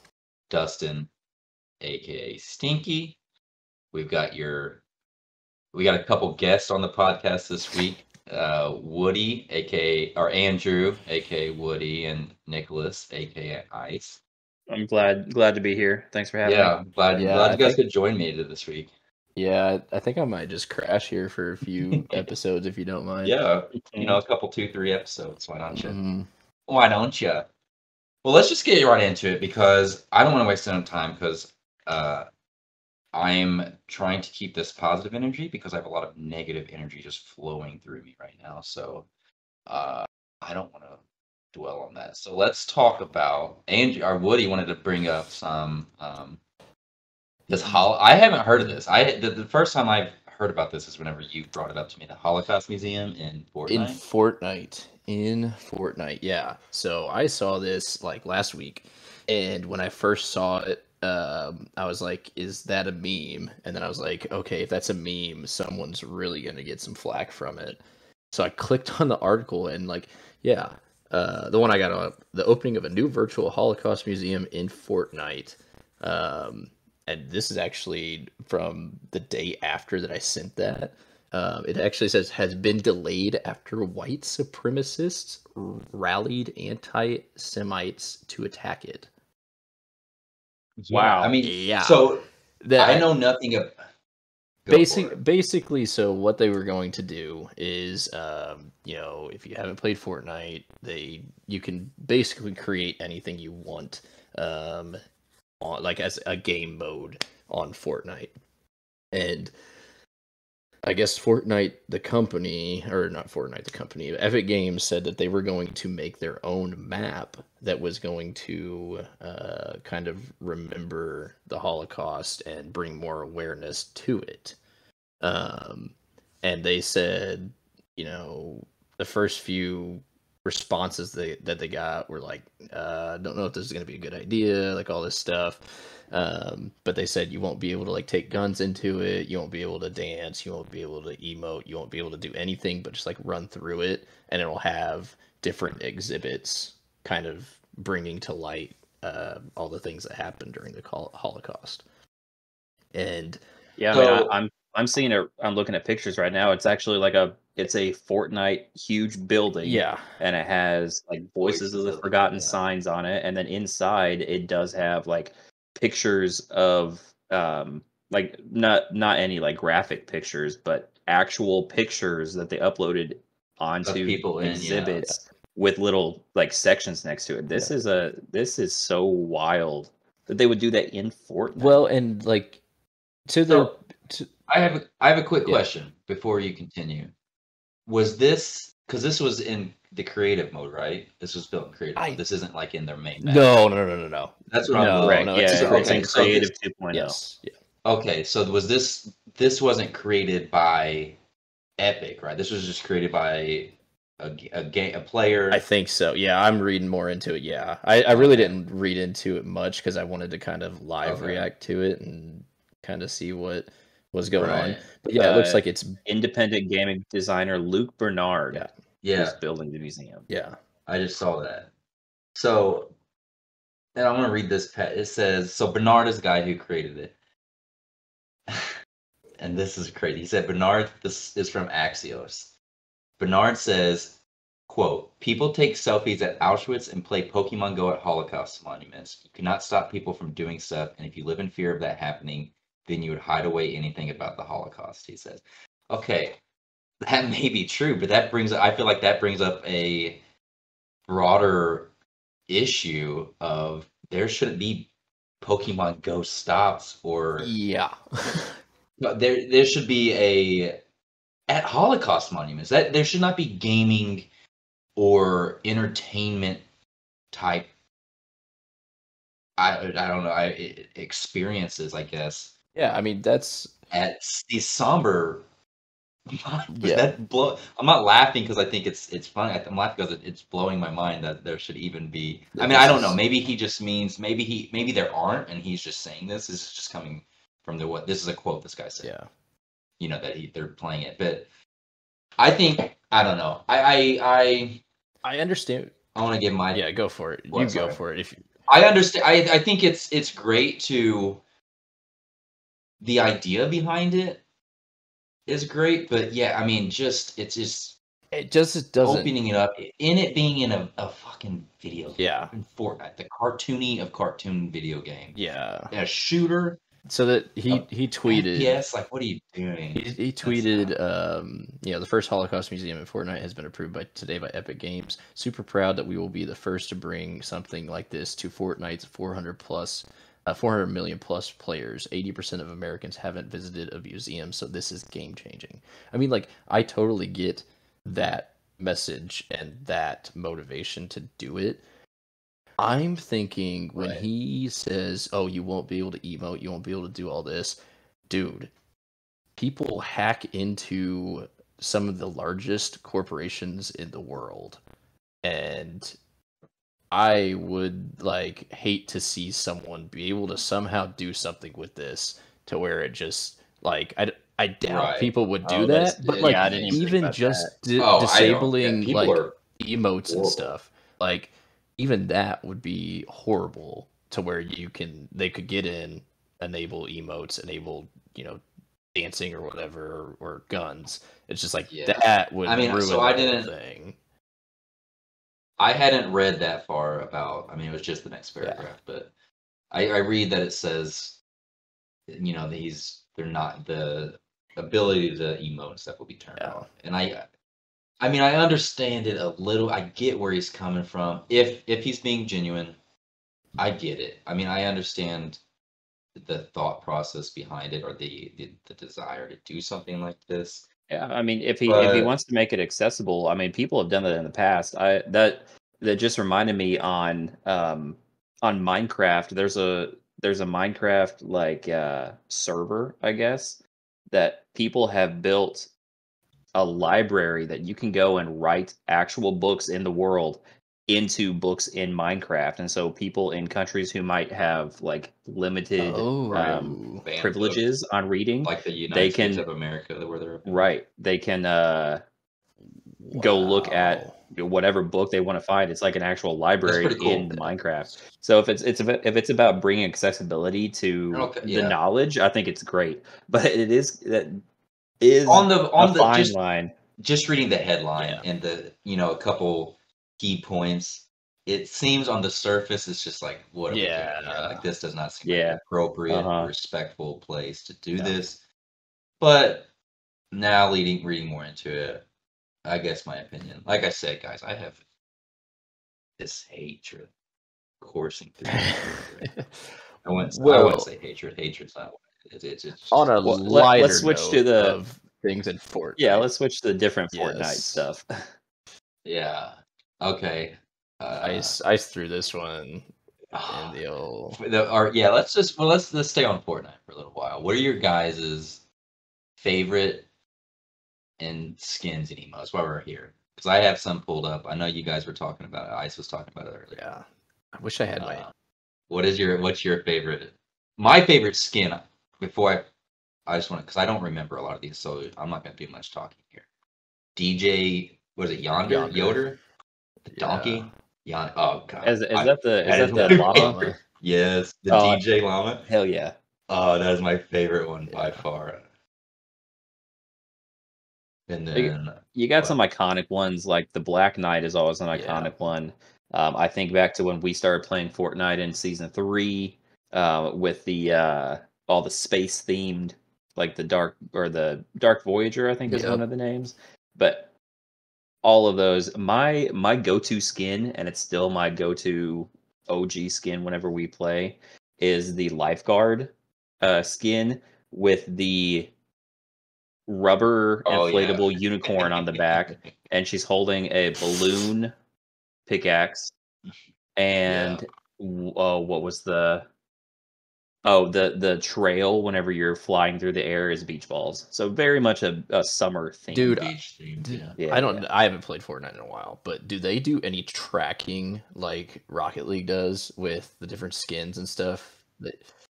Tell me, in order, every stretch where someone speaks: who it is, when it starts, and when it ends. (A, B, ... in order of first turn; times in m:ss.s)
0:00.5-0:01.1 A
0:01.8-0:03.2 A
0:03.9-0:04.8 A
0:05.7-0:14.2 A
0:14.7-0:16.7 B
0:16.4-0:18.9 A
0:17.1-0:17.8 C
0:19.4-0:23.4 C
0:21.9-0:22.2 A
0:23.2-0:26.0 A
0:23.9-0:24.2 B
0:25.7-0:26.3 C
0:26.7-0:27.5 A
0:28.2-0:32.3 A
0:33.1-0:39.1 A
0:39.7-0:41.0 A
0:41.5-0:46.4 A
0:47.5-0:54.0 A
0:53.7-1:07.8 C
1:08.3-1:29.1 C
1:30.8-1:32.2 A
1:30.9-1:31.3 B
1:31.4-1:32.0 C
1:32.6-1:33.1 C
1:32.8-1:33.7 A
1:34.6-1:35.2 A
1:34.7-1:45.0 C
1:45.6-1:48.3 C
1:49.1-1:49.5 C
1:50.8-2:04.6 C
2:05.2-2:31.8 C
2:32.9-2:33.4 C
2:33.8-3:01.8 B
2:33.9-2:34.3 A
2:39.6-2:40.0 C
2:41.4-2:42.6 A
2:53.8-2:55.0 A
3:01.6-3:02.6 C
3:03.3-3:04.3 C
3:03.5-3:03.8 A
3:04.5-3:07.1 A
3:07.9-3:13.5 A
3:12.0-3:12.2 C
3:13.2-3:17.5 C
3:14.5-3:16.5 A
3:15.0-3:17.2 B
3:17.8-3:21.2 A
3:21.8-3:25.6 A
3:25.5-3:36.0 C
3:28.1-3:28.5 A
3:31.0-3:31.5 A
3:34.4-3:34.8 A
3:35.2-3:38.6 B
3:39.0-3:39.4 A
3:39.2-3:40.2 B
3:40.3-3:40.6 C
3:40.9-3:41.7 A
3:42.3-3:42.9 A
3:43.9-3:47.1 A
3:49.4-3:52.5 A
3:53.2-3:54.2 A
3:54.7-4:06.4 A
4:07.0-4:10.2 A
4:11.1-4:11.9 A
4:12.5-4:14.9 A
4:15.4-4:17.5 A
4:17.4-4:18.6 C
4:19.0-4:20.8 A
4:21.5-4:24.3 A
4:25.0-4:26.6 A
4:27.3-4:27.7 A
4:29.6-4:32.5 A
4:32.7-4:33.7 C
4:33.9-4:35.4 A
4:36.3-4:49.1 A
4:36.7-4:37.0 C
4:42.5-4:43.2 C
4:50.0-4:51.5 A
4:52.4-4:54.8 A
4:55.2-4:55.9 C
4:56.1-4:56.8 A
4:56.7-4:58.4 C
4:57.5-4:58.0 A
4:58.7-5:01.4 A
5:03.0-5:04.4 A
5:05.5-5:08.0 A
5:08.3-5:09.3 C
5:09.0-5:15.4 A
5:12.2-5:12.5 C
5:15.3-5:15.9 C
5:15.9-5:16.8 A
5:17.1-5:18.8 C
5:17.7-5:21.0 A
5:19.9-5:41.8 C
5:42.8-5:48.7 C
5:44.0-5:44.2 A
5:49.6-5:54.8 C
5:55.4-5:56.2 C
5:57.1-6:18.6 C
6:04.8-6:05.3 A
6:05.6-6:07.7 B
6:06.2-6:07.0 A
6:08.0-6:09.6 A
6:10.3-6:10.7 A
6:19.1-6:24.2 C
6:21.9-6:23.7 A
6:25.8-6:29.3 A
6:29.9-6:31.4 A
6:32.3-6:37.4 A
6:36.6-6:36.9 C
6:38.2-6:43.0 A
6:43.8-6:45.6 A
6:46.3-6:50.8 A
6:51.1-7:03.8 B
6:51.8-6:52.3 A
7:04.3-7:05.9 B
7:06.7-7:19.6 B
7:16.0-7:17.2 C
7:17.2-7:17.8 A
7:18.6-7:20.9 A
7:20.6-7:22.2 B
7:23.2-7:24.4 C
7:23.3-7:34.6 B
7:26.8-7:27.7 A
7:31.3-7:32.0 A
7:35.2-7:36.9 B
7:35.4-7:36.5 A
7:37.2-7:48.6 A
7:38.2-7:38.4 B
7:43.9-7:44.8 C
7:45.4-7:46.7 B
7:49.4-7:49.9 A
7:50.5-7:52.2 A
7:52.8-7:55.0 A
7:56.4-7:57.3 A
7:58.0-7:59.6 A
7:58.8-7:59.1 C
8:00.2-8:03.3 A
8:00.4-8:01.1 C
8:03.1-8:06.5 C
8:03.4-8:05.0 B
8:06.2-8:08.4 B
8:07.3-8:08.0 C
8:09.2-8:11.8 A
8:11.4-8:13.1 C
8:13.5-8:14.0 A
8:13.7-8:14.6 C
8:14.5-8:18.8 A
8:19.6-8:20.2 A
8:21.4-8:27.0 A
8:27.0-8:28.4 C
8:28.2-8:28.5 A
8:29.1-8:32.8 A
8:33.5-8:36.6 A
8:37.4-8:39.6 A
8:38.8-8:39.4 C
8:40.2-8:45.8 A
8:40.3-8:40.9 C
8:42.0-8:43.8 B
8:43.1-8:44.0 C
8:44.9-8:45.2 B
8:45.8-8:46.3 B
8:46.7-8:48.8 A
8:48.1-8:48.4 C
8:51.5-8:52.8 A
8:51.7-9:07.5 B
8:55.1-8:55.5 A
9:05.9-9:06.2 C
9:08.4-9:18.9 B
9:20.1-9:24.9 B
9:20.8-9:22.9 A
9:25.7-9:26.3 B
9:27.2-9:29.6 B
9:27.5-9:27.8 A
9:30.8-9:36.6 B
9:36.3-9:45.4 C
9:36.4-9:37.6 A
9:37.6-9:38.0 B